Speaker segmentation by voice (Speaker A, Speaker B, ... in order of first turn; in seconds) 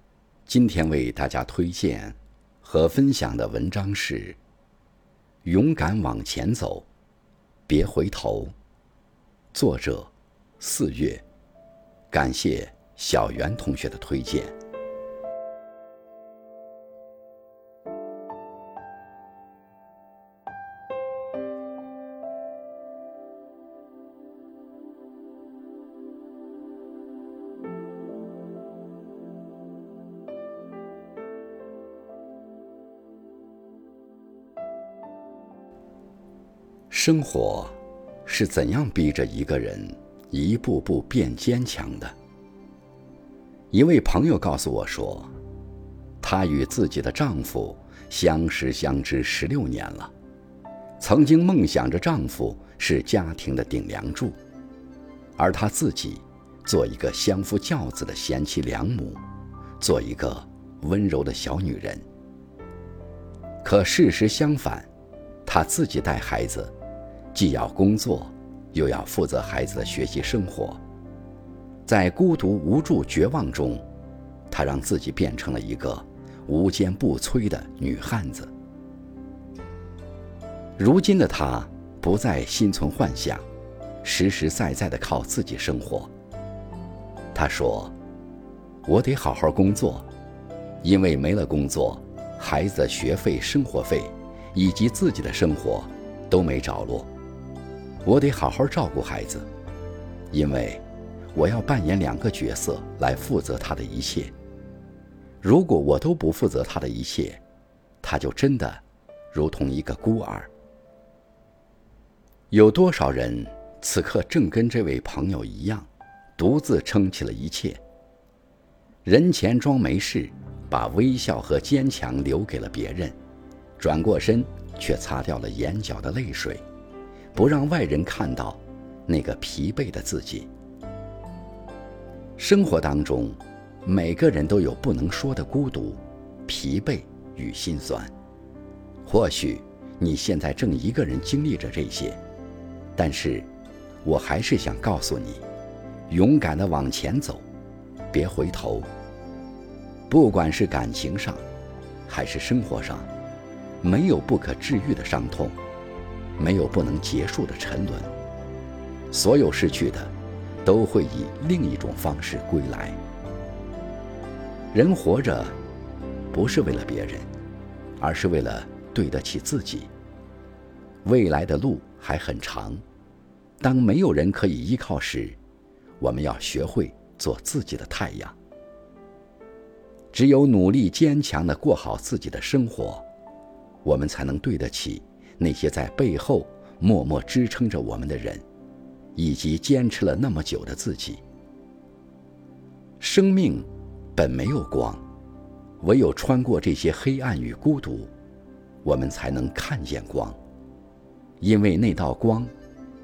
Speaker A: 0.5-4.4, 5.5-6.9, 7.7-8.5, 9.5-11.2, 12.1-14.6, 36.9-42.1, 43.7-45.3, 46.2-50.1, 51.0-54.4, 55.4-59.2, 59.8-62.0, 63.6-64.9, 65.5-66.7, 67.3-70.8, 71.9-73.8, 74.5-78.5, 80.8-83.5, 84.0-86.1, 87.3-87.9, 88.8-90.1, 90.8-97.1, 98.0-99.5, 100.3-100.8, 101.3-104.3, 105.4-107.4, 108.0-110.5, 112.5-117.8, 119.0-123.2, 123.8-126.6, 127.3-130.5, 132.4-138.1, 139.1-142.2, 142.9-143.5, 144.0-145.4, 146.1-147.4, 148.1-148.9, 150.1-151.4, 152.1-153.1, 153.8-155.6, 156.4-158.1, 159.1-160.1, 160.6-163.0, 164.7-165.6, 166.3-167.3, 168.0-169.9, 171.0-172.8, 173.6-175.4, 176.0-178.4, 180.1-183.1, 183.8-188.4, 189.2-191.2, 193.0-195.0, 195.8-198.1, 198.8-200.4, 201.4-202.5